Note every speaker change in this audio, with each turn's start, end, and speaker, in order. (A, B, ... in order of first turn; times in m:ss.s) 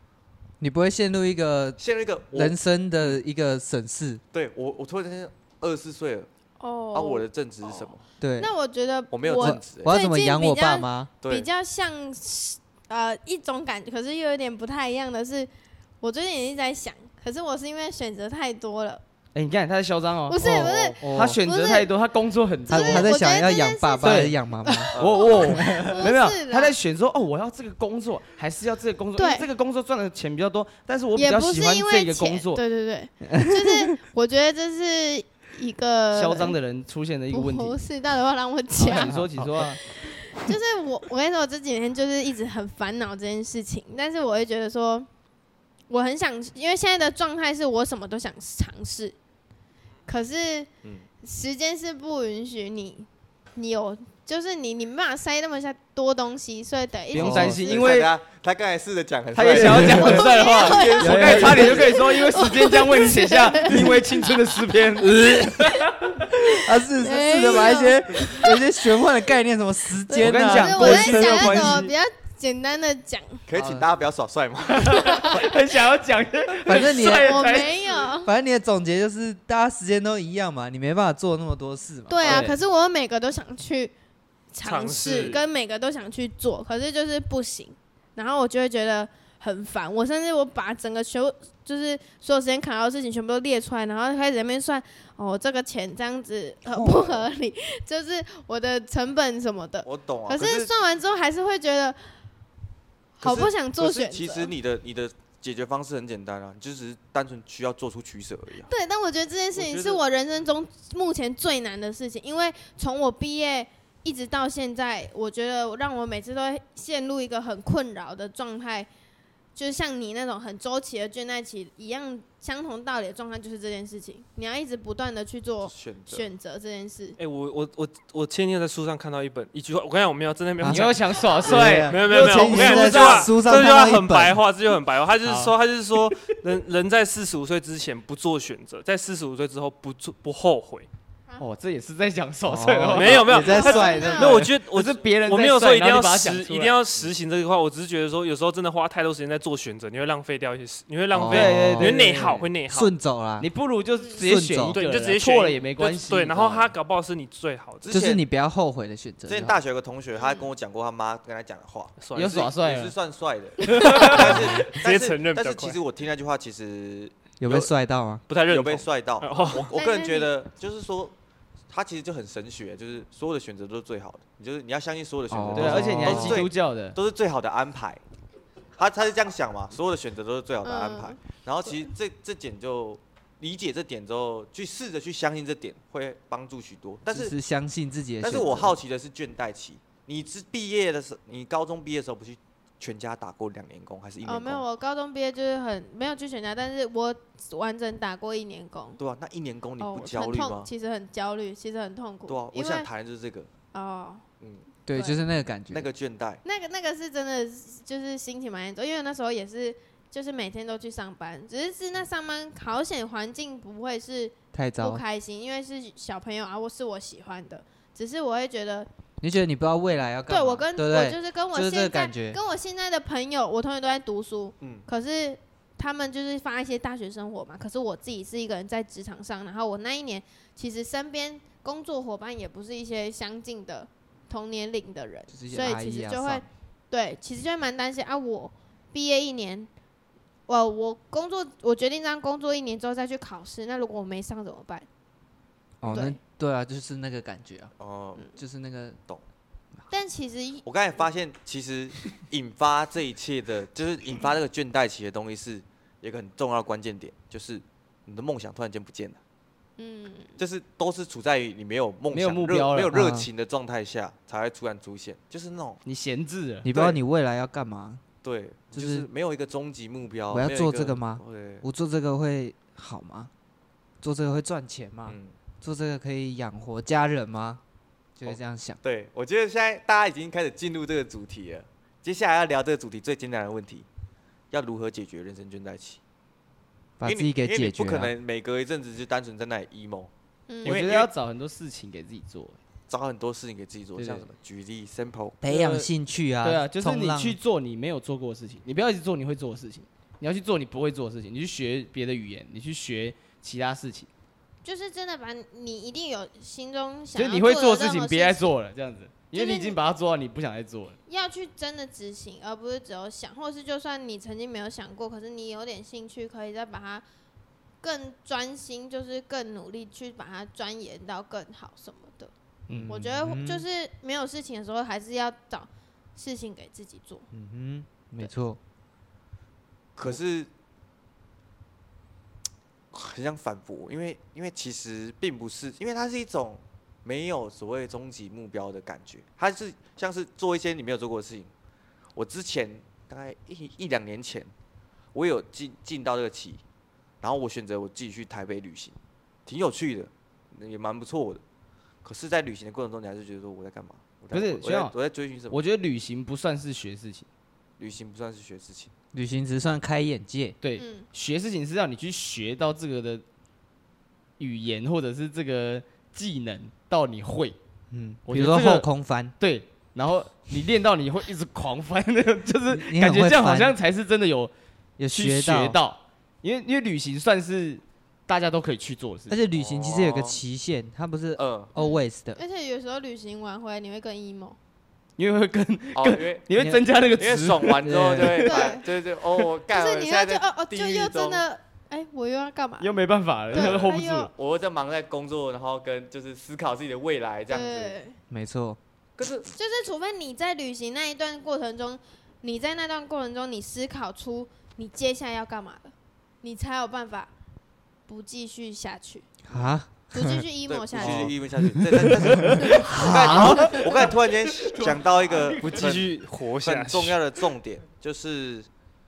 0:00.6-0:04.2 A
0:01.8-0:03.2 B
0:04.3-0:06.3 B
0:06.6-0:07.8 C
0:06.9-0:08.0 B
0:08.2-0:08.5 A
0:08.4-0:15.5 C
0:09.1-0:09.9 B
0:09.4-0:11.1 A
0:11.2-0:11.5 B
0:16.0-0:19.0 C
0:19.3-0:23.1 D
0:20.3-0:21.9 C
0:20.4-0:21.4 A
0:20.6-0:20.9 B
0:22.7-0:26.7 C
0:22.7-0:24.9 A
0:24.0-0:24.3 D
0:24.9-0:25.5 B
0:24.9-0:32.6 D
0:29.2-0:29.5 C
0:31.1-0:36.6 C
0:33.3-0:33.8 A
0:36.1-0:37.8 D
0:37.3-0:39.3 C
0:38.8-0:39.8 D
0:38.9-0:39.6 A
0:39.8-0:45.1 C
0:45.9-0:49.1 C
0:50.1-0:50.7 C
0:51.2-0:57.9 C
0:57.1-0:58.1 D
0:57.2-0:57.6 A
0:57.4-1:02.0 B
0:59.3-1:06.3 D
0:59.5-1:00.2 A
1:00.0-1:04.4 C
1:01.0-1:01.8 A
1:05.0-1:05.8 A
1:06.5-1:11.9 A
1:06.9-1:08.6 C
1:10.1-1:13.4 C
1:10.2-1:11.9 D
1:13.5-1:15.4 B
1:13.5-1:13.8 A
1:14.8-1:17.9 D
1:15.0-1:15.4 C
1:16.6-1:17.6 A
1:17.1-1:18.3 C
1:18.2-1:22.4 A
1:22.1-1:23.9 C
1:22.2-1:22.6 D
1:24.5-1:42.0 C
1:24.6-1:25.4 E
1:36.7-1:37.2 B
1:39.8-1:40.7 B
1:43.2-1:44.5 C
1:43.2-1:48.7 B
1:48.6-1:58.9 C
1:49.5-1:50.0 E
1:59.5-2:07.2 C
2:05.6-2:06.3 B
2:07.2-2:20.9 E
2:10.6-2:14.4 A
2:10.7-2:13.3 D
2:15.2-2:15.5 D
2:21.4-2:23.6 D
2:22.4-2:24.5 A
2:22.9-2:32.9 E
2:23.4-2:24.4 C
2:24.2-2:26.8 D
2:31.1-2:33.5 A
2:31.3-2:32.5 D
2:33.4-2:36.7 D
2:34.2-2:34.8 A
2:34.7-2:37.9 E
2:37.8-2:38.2 B
2:37.9-2:39.6 A
2:39.3-2:47.6 B
2:40.2-2:40.5 C
2:42.0-2:42.5 E
2:42.1-2:42.9 D
2:43.6-2:44.4 D
2:43.7-2:44.0 C
2:44.0-2:45.8 E
2:47.4-2:48.2 A
2:48.3-2:49.7 E
2:48.5-2:51.1 B
2:49.7-2:50.3 C
2:51.7-2:58.0 B
2:55.3-2:56.5 A
2:55.5-2:57.0 D
2:58.8-3:07.3 B
3:00.6-3:01.9 C
3:07.1-3:08.7 A
3:08.2-3:14.6 B
3:08.4-3:08.6 C
3:14.2-3:19.0 C
3:19.0-3:20.7 B
3:19.8-3:22.9 C
3:22.3-3:23.5 B
3:23.7-3:24.2 C
3:24.4-3:24.7 B
3:24.8-3:25.9 A
3:24.9-3:25.2 C
3:25.7-3:26.4 B
3:26.4-3:38.9 C
3:34.5-3:35.0 A
3:39.2-3:42.4 A
3:40.3-3:59.7 C
3:44.6-3:44.8 B
3:55.3-3:56.4 A
4:00.5-4:04.9 C
4:05.8-4:07.7 A
4:05.8-4:06.2 C
4:07.8-4:08.3 B
4:08.4-4:09.0 A
4:09.9-4:10.6 C
4:10.6-4:19.2 B
4:19.8-4:20.3 C
4:20.4-4:25.8 B
4:22.1-4:22.9 D
4:22.9-4:23.3 A
4:25.8-4:26.7 D
4:26.6-4:28.0 A
4:26.7-4:27.0 B
4:28.2-4:31.6 B
4:28.7-4:29.1 A
4:30.3-4:33.3 A
4:34.0-4:37.6 A
4:35.0-4:35.3 B
4:38.2-4:38.8 A
4:38.2-4:43.8 B
4:44.5-4:46.0 B
4:47.0-4:48.1 A
4:47.0-4:50.1 B
4:50.5-4:50.8 C
4:50.6-4:51.1 B
4:50.6-4:52.6 D
4:52.9-4:55.4 B
4:54.0-4:54.2 D
4:55.4-4:57.4 A
4:55.4-4:55.9 D
4:56.4-5:04.1 D
5:04.6-5:08.5 C
5:07.1-5:11.0 D
5:09.3-5:09.8 C
5:11.1-5:17.0 C
5:17.8-5:22.3 C
5:22.7-5:22.9 D
5:22.7-5:23.6 A
5:22.9-5:27.3 C
5:27.3-5:28.6 A
5:30.0-5:30.5 B
5:32.9-5:41.5 B
5:42.1-5:44.5 B
5:45.1-5:46.6 B
5:47.2-5:51.4 B
5:52.0-5:55.6 B
5:54.3-5:54.9 D
5:55.5-5:57.3 D
5:57.8-5:58.9 B
5:59.1-6:00.6 A
6:00.6-6:03.2 D
6:00.8-6:01.1 C
6:04.4-6:07.6 D
6:07.9-6:09.3 A
6:08.2-6:08.9 D
6:09.4-6:14.5 D
6:12.7-6:13.8 A
6:15.0-6:15.8 A
6:15.1-6:19.4 D
6:19.3-6:22.4 A
6:19.5-6:20.4 B
6:21.4-6:21.7 B
6:21.8-6:24.6 C
6:25.2-6:28.4 D
6:25.9-6:26.4 B
6:26.6-6:26.8 A
6:27.2-6:31.4 B
6:27.8-6:28.6 A
6:28.4-6:28.9 C
6:29.6-6:32.9 C
6:32.8-6:34.3 D
6:33.5-6:34.3 C
6:33.5-6:38.0 B
6:37.5-6:38.2 C
6:38.3-6:38.8 A
6:39.2-6:39.5 B
6:39.5-6:47.3 C
6:48.1-6:49.3 C
6:49.5-6:50.4 A
6:50.1-6:51.3 C
6:50.7-6:58.7 B
6:52.3-6:53.8 D
6:52.8-6:53.8 A
6:54.6-6:55.8 D
6:55.6-6:57.2 E